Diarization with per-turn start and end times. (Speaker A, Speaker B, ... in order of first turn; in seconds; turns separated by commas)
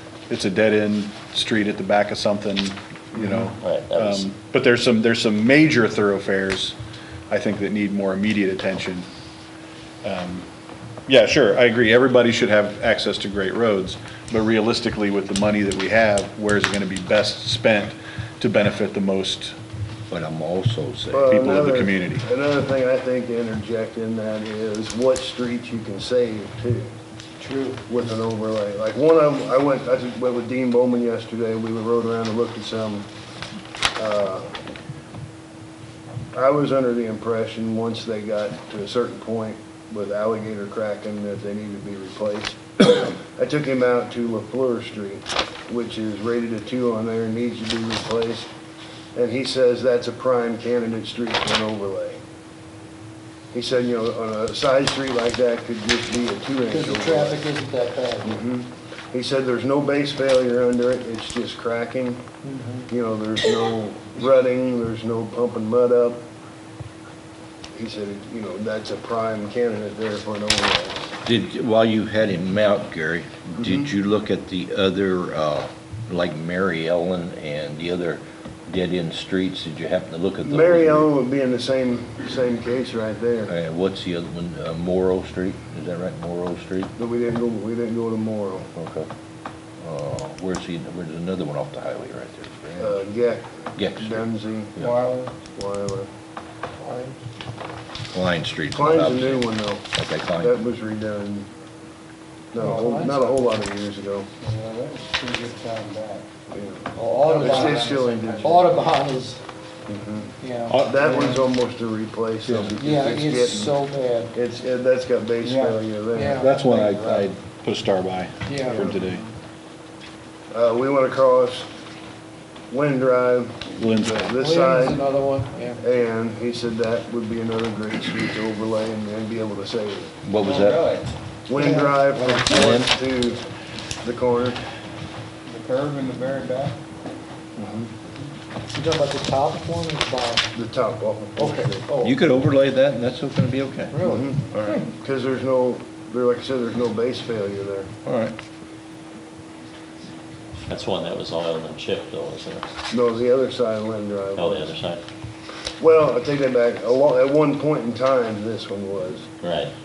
Speaker A: 0.3-6.8, Speaker B: 3.6-4.2, Speaker A: 7.3-9.1, Speaker A: 10.0-10.5, Speaker A: 11.1-19.6, Speaker C: 20.1-21.7, Speaker D: 21.1-26.9, Speaker A: 21.3-22.2, Speaker E: 27.4-27.8, Speaker D: 27.9-33.1, Speaker D: 34.0-34.6, Speaker D: 36.3-48.5, Speaker D: 49.1-52.2, Speaker D: 53.5-57.4, Speaker E: 56.7-58.4, Speaker D: 58.2-62.2, Speaker E: 62.4-62.9, Speaker D: 62.9-66.2, Speaker D: 67.7-71.1, Speaker C: 71.2-81.1, Speaker D: 73.6-73.9, Speaker D: 80.4-83.5, Speaker C: 83.5-86.9, Speaker D: 87.0-88.7, Speaker C: 88.7-89.1, Speaker C: 89.8-93.0, Speaker D: 92.8-94.8, Speaker C: 93.8-95.0, Speaker D: 95.5-96.1, Speaker E: 96.8-97.1, Speaker C: 98.1-100.6, Speaker D: 98.7-99.9, Speaker D: 100.4-101.5, Speaker D: 102.5-104.3, Speaker E: 102.6-103.2, Speaker D: 106.5-106.8, Speaker E: 107.0-109.4, Speaker D: 107.4-108.7, Speaker D: 109.9-110.3, Speaker E: 110.4-110.8, Speaker A: 110.7-111.2, Speaker D: 110.8-113.8, Speaker A: 112.5-112.7, Speaker E: 112.8-114.3, Speaker D: 114.3-116.5, Speaker E: 116.1-116.5, Speaker A: 116.4-119.2, Speaker E: 118.5-118.9, Speaker D: 120.5-121.7, Speaker D: 122.7-125.0, Speaker A: 123.8-124.2, Speaker E: 124.4-125.8, Speaker D: 125.8-130.1, Speaker C: 130.3-130.9, Speaker D: 131.5-133.4, Speaker E: 131.5-132.7, Speaker C: 132.5-133.0, Speaker D: 134.0-134.6, Speaker D: 137.6-137.9, Speaker E: 138.7-140.5, Speaker D: 140.5-141.9, Speaker E: 141.4-142.2, Speaker C: 142.0-144.0, Speaker E: 143.9-144.3, Speaker D: 144.0-147.9, Speaker C: 144.5-144.9, Speaker C: 148.1-148.4, Speaker B: 150.7-152.7, Speaker D: 152.9-154.7, Speaker B: 154.4-155.0, Speaker D: 155.8-159.3, Speaker B: 159.4-159.7